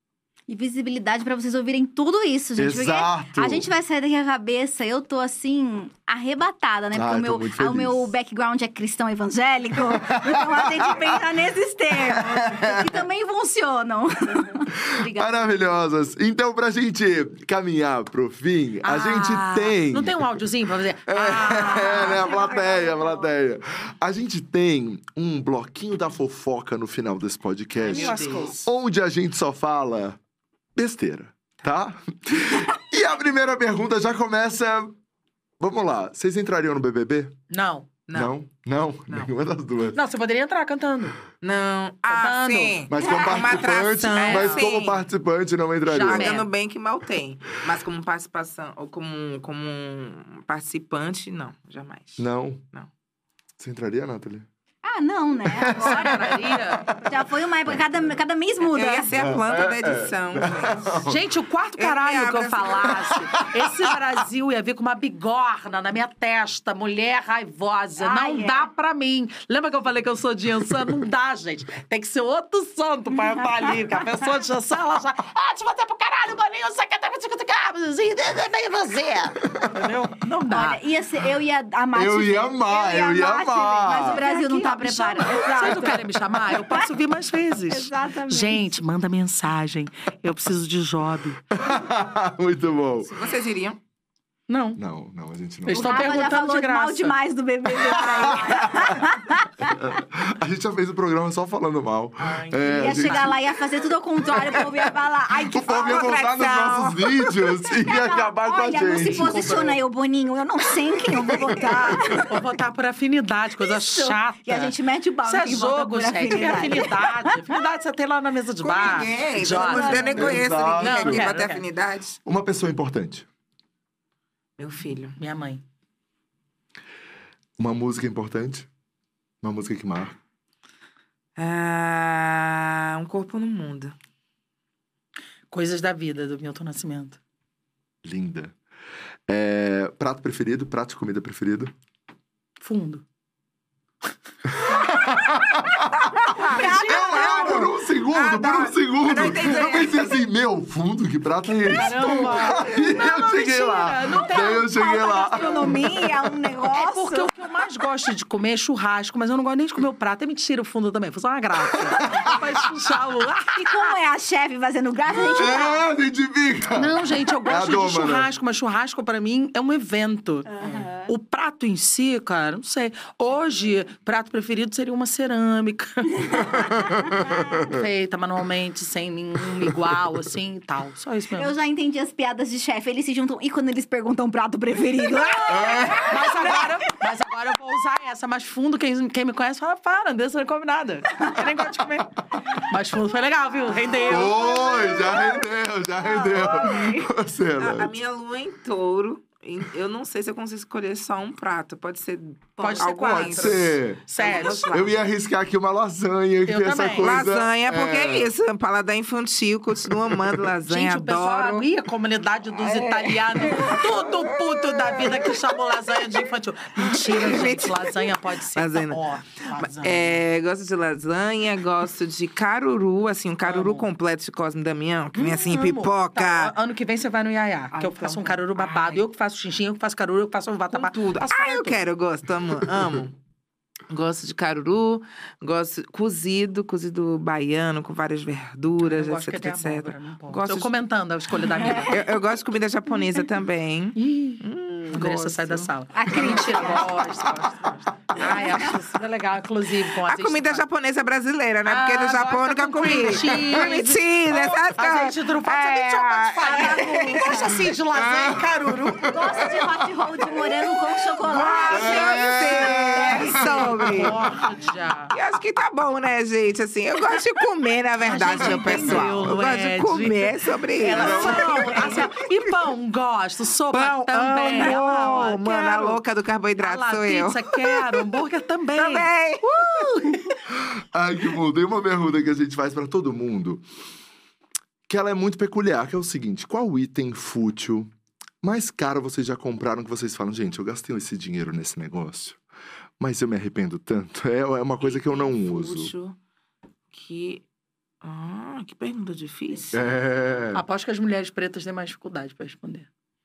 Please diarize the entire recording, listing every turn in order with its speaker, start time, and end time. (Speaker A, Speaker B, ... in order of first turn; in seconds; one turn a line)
Speaker A: 0.5-15.4
Speaker B: 2.6-3.7
Speaker B: 6.9-8.1
Speaker B: 10.0-11.2
Speaker B: 12.0-12.8
Speaker B: 14.9-20.4
Speaker C: 18.8-22.3
Speaker B: 21.1-30.2
Speaker A: 21.5-23.3
Speaker D: 27.8-28.5
Speaker C: 27.8-28.6
Speaker B: 30.7-35.0
Speaker B: 35.6-37.3
Speaker C: 37.5-37.9
Speaker B: 38.1-40.0
Speaker C: 39.9-41.1
Speaker D: 41.4-45.0
Speaker C: 42.0-42.9
Speaker B: 42.9-46.4
Speaker A: 43.0-43.4
Speaker C: 44.1-44.7
Speaker C: 45.9-46.5
Speaker D: 46.0-52.9
Speaker B: 52.2-52.6
Speaker B: 53.6-54.5
Speaker A: 54.8-59.1
Speaker B: 55.5-56.2
Speaker C: 55.8-56.9
Speaker D: 58.7-61.0
Speaker B: 59.1-61.1
Speaker C: 61.1-80.8
Speaker D: 61.8-63.1
Speaker A: 68.0-68.7
Speaker A: 73.2-73.4
Speaker A: 80.5-86.9
Speaker B: 81.9-84.2
Speaker C: 84.0-91.4
Speaker A: 87.7-88.8
Speaker B: 91.5-93.2
Speaker D: 93.1-93.8
Speaker C: 94.5-94.8
Speaker B: 94.8-96.0
Speaker C: 95.7-97.2
Speaker A: 95.7-99.9
Speaker B: 97.8-99.0
Speaker B: 99.6-103.4
Speaker C: 102.2-103.3
Speaker A: 102.7-106.1
Speaker B: 105.5-109.7
Speaker D: 105.7-107.6
Speaker A: 107.8-112.3
Speaker C: 108.9-109.8
Speaker B: 111.6-112.2
Speaker C: 111.8-121.6
Speaker A: 113.6-117.5
Speaker D: 118.6-122.2
Speaker B: 119.3-121.3
Speaker B: 122.2-123.3
Speaker D: 124.6-125.2
Speaker C: 125.2-125.6
Speaker B: 127.6-128.7
Speaker B: 129.4-130.2
Speaker D: 131.4-133.9
Speaker C: 135.5-137.2
Speaker B: 138.0-138.5
Speaker B: 139.3-141.7
Speaker C: 142.6-143.0
Speaker B: 144.5-155.8
Speaker D: 146.3-146.6
Speaker A: 146.3-147.6
Speaker C: 146.3-147.6
Speaker D: 147.2-150.1
Speaker C: 151.7-156.1
Speaker A: 154.1-157.3
Speaker C: 156.7-163.9
Speaker B: 161.8-162.6
Speaker A: 162.1-162.4
Speaker A: 163.5-165.8
Speaker B: 165.1-168.3
Speaker C: 166.7-170.5
Speaker A: 170.5-171.1
Speaker C: 171.1-176.6
Speaker A: 176.2-176.9
Speaker B: 176.4-177.7
Speaker C: 177.6-181.5
Speaker A: 181.3-186.8
Speaker C: 185.2-194.6
Speaker B: 185.5-186.1
Speaker A: 193.8-195.5
Speaker B: 194.1-197.9
Speaker A: 196.0-197.1
Speaker D: 197.6-204.9
Speaker C: 202.6-204.9
Speaker B: 203.1-204.1
Speaker B: 204.7-208.3
Speaker C: 206.5-207.2
Speaker D: 207.0-211.7
Speaker C: 210.7-220.2
Speaker D: 212.5-215.4
Speaker D: 216.8-226.5
Speaker C: 223.4-223.9
Speaker C: 225.1-231.8
Speaker D: 227.7-229.0
Speaker D: 230.7-233.1
Speaker D: 233.9-240.7
Speaker C: 238.8-242.2
Speaker A: 241.5-242.0
Speaker D: 241.8-246.7
Speaker C: 243.9-250.6
Speaker A: 245.9-247.1
Speaker D: 248.2-248.5
Speaker D: 250.0-257.7
Speaker C: 251.7-260.6
Speaker A: 256.5-257.4
Speaker B: 258.1-259.2
Speaker A: 259.0-263.8
Speaker D: 261.2-264.2
Speaker C: 261.3-261.8
Speaker B: 261.7-264.3
Speaker C: 263.2-265.1
Speaker D: 265.1-272.1
Speaker C: 268.0-276.0
Speaker A: 270.8-272.1
Speaker B: 271.0-271.7
Speaker D: 273.7-278.2
Speaker C: 276.6-280.4
Speaker D: 278.8-279.4
Speaker B: 280.5-283.6
Speaker B: 284.9-287.9
Speaker B: 288.4-292.4
Speaker B: 293.0-295.9
Speaker D: 294.8-296.2
Speaker D: 296.9-297.4
Speaker D: 298.0-299.8
Speaker B: 299.7-300.6
Speaker C: 300.5-302.9